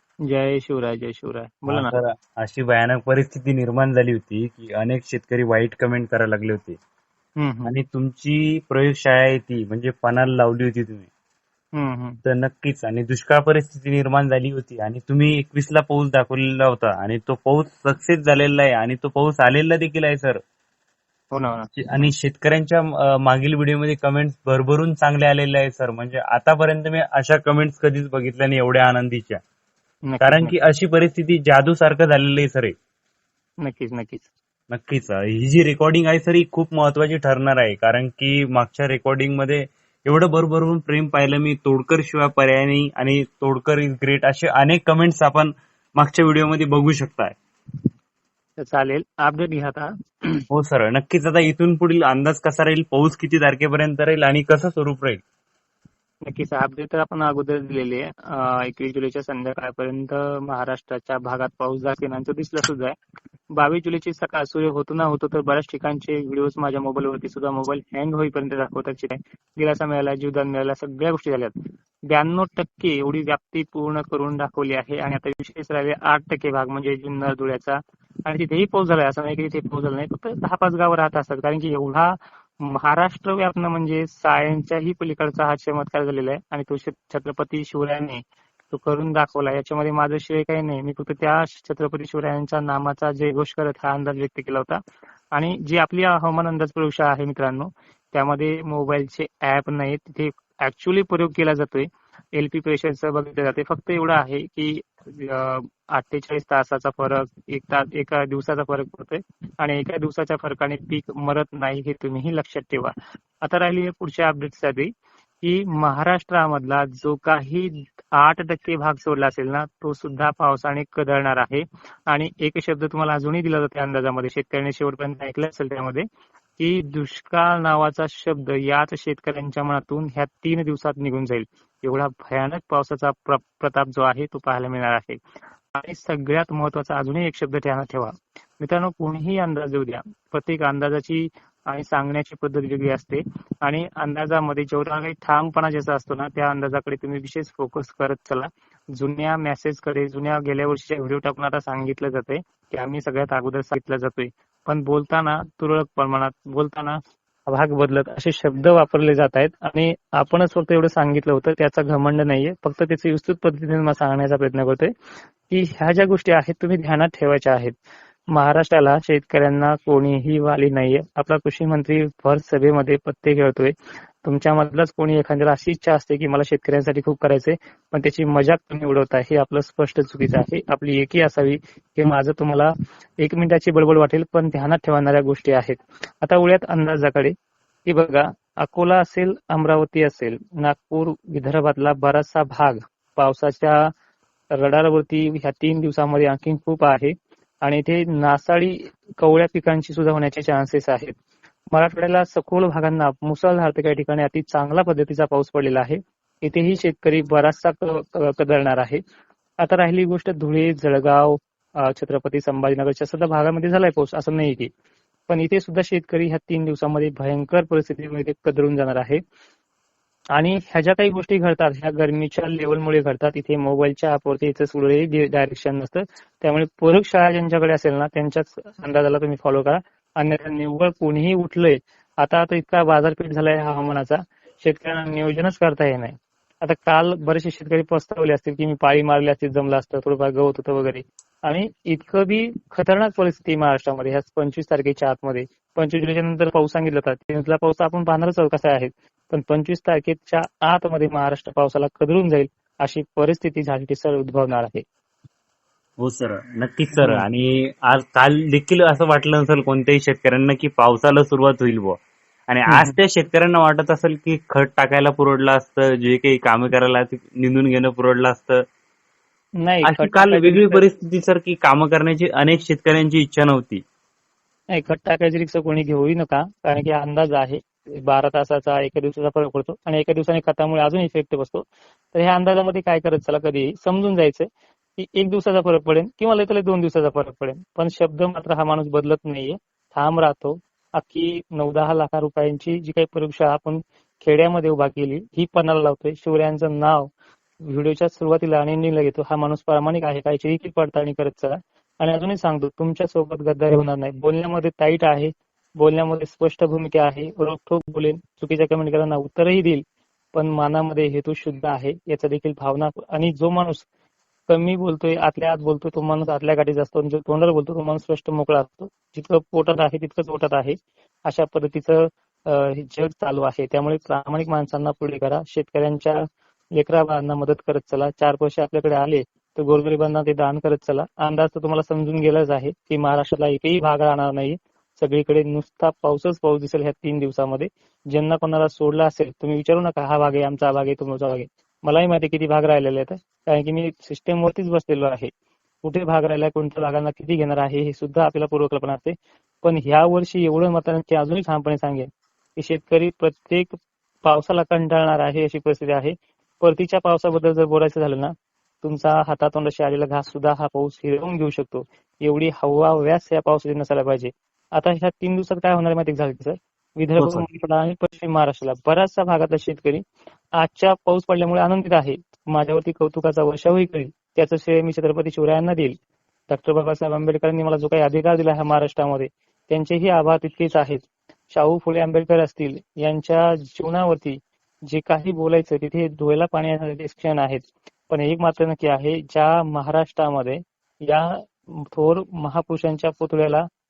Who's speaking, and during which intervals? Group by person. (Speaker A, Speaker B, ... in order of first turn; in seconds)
Speaker A: 0.3-1.9, 7.4-7.8, 11.8-12.2, 21.3-21.7, 30.1-30.5, 33.6-34.3, 48.6-50.4, 56.3-63.0, 63.6-71.5, 72.1-88.2, 88.7-94.8, 95.3-112.9, 113.4-114.9, 115.4-126.0, 126.6-135.2, 135.7-164.9, 165.5-167.7, 168.3-187.3, 187.9-193.8, 194.6-201.1, 201.7-209.0, 209.6-214.7, 215.3-219.2, 220.4-254.8, 257.0-257.3, 262.7-262.9, 269.6-270.8, 274.7-284.5, 285.0-297.1, 297.7-309.8, 310.3-313.9, 314.5-320.8, 321.3-326.2, 326.8-345.3, 345.8-353.7, 354.2-358.3, 358.8-370.0, 370.6-375.9, 376.5-393.6
Speaker B: 1.7-6.8, 7.7-11.1, 12.2-20.4, 21.8-29.4, 30.2-32.7, 34.7-47.4, 50.5-55.2, 256.0-268.6, 269.8-273.8, 367.2-367.4